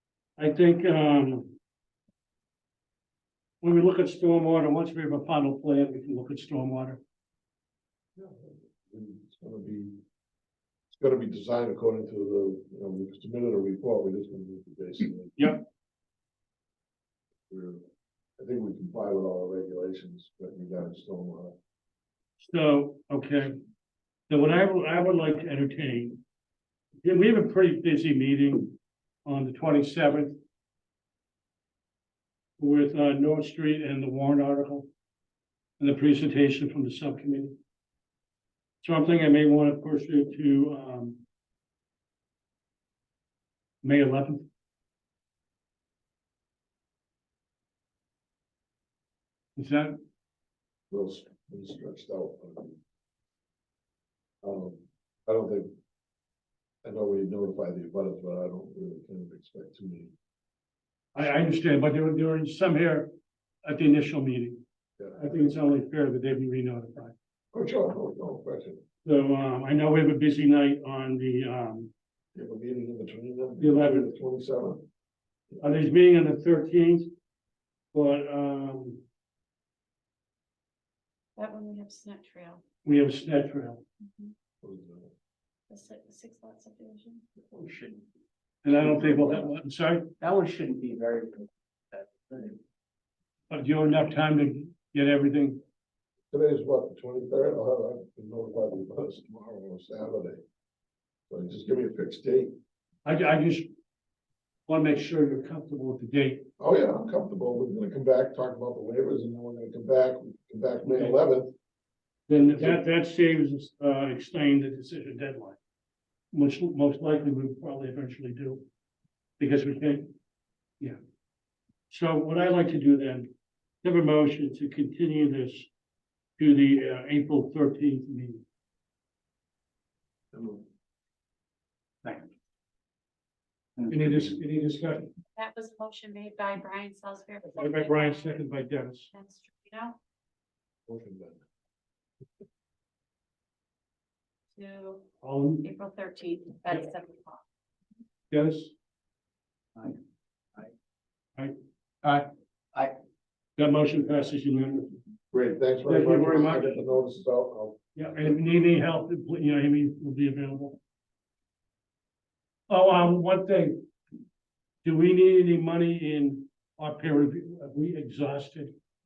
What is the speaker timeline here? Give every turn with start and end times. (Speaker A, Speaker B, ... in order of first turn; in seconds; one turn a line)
Speaker A: 0.4-1.5
Speaker A: 3.6-7.0
Speaker B: 8.2-9.9
Speaker B: 10.9-15.4
Speaker A: 15.4-15.6
Speaker B: 17.5-17.8
Speaker B: 18.4-21.5
Speaker A: 22.4-23.5
Speaker A: 24.3-26.2
Speaker A: 27.0-30.4
Speaker A: 32.6-34.9
Speaker A: 35.8-37.5
Speaker A: 38.8-41.2
Speaker A: 43.8-44.5
Speaker A: 49.6-50.0
Speaker B: 50.9-52.8
Speaker B: 54.4-55.7
Speaker B: 56.8-60.1
Speaker A: 61.1-63.1
Speaker A: 63.6-64.6
Speaker B: 65.0-65.3
Speaker A: 65.1-67.1
Speaker B: 67.5-68.8
Speaker A: 69.0-71.9
Speaker B: 72.3-74.8
Speaker A: 73.6-74.1
Speaker A: 75.6-77.1
Speaker A: 77.9-79.0
Speaker C: 81.4-82.6
Speaker A: 82.8-83.8
Speaker B: 84.6-85.1
Speaker C: 85.7-87.2
Speaker D: 87.5-88.0
Speaker A: 88.6-90.1
Speaker B: 88.7-89.5
Speaker D: 90.2-92.6
Speaker A: 93.5-95.6
Speaker B: 96.3-100.4
Speaker B: 101.3-102.5
Speaker A: 103.0-103.7
Speaker A: 104.7-106.5
Speaker B: 106.6-111.5
Speaker A: 110.8-111.2
Speaker A: 112.3-115.6
Speaker B: 112.3-112.8
Speaker A: 116.3-118.6
Speaker A: 119.4-120.1
Speaker A: 121.9-123.3
Speaker A: 123.8-125.7
Speaker A: 126.4-128.4
Speaker B: 130.3-130.6
Speaker A: 133.9-135.1
Speaker C: 135.3-138.5
Speaker A: 137.5-139.1
Speaker C: 139.1-140.0
Speaker B: 140.9-141.4
Speaker C: 144.5-145.1
Speaker A: 145.2-145.7
Speaker C: 145.6-147.4
Speaker A: 148.3-148.7
Speaker A: 153.6-155.0
Speaker B: 155.3-157.8
Speaker A: 155.8-156.8
Speaker A: 157.9-160.8
Speaker A: 162.7-163.8
Speaker A: 164.8-168.7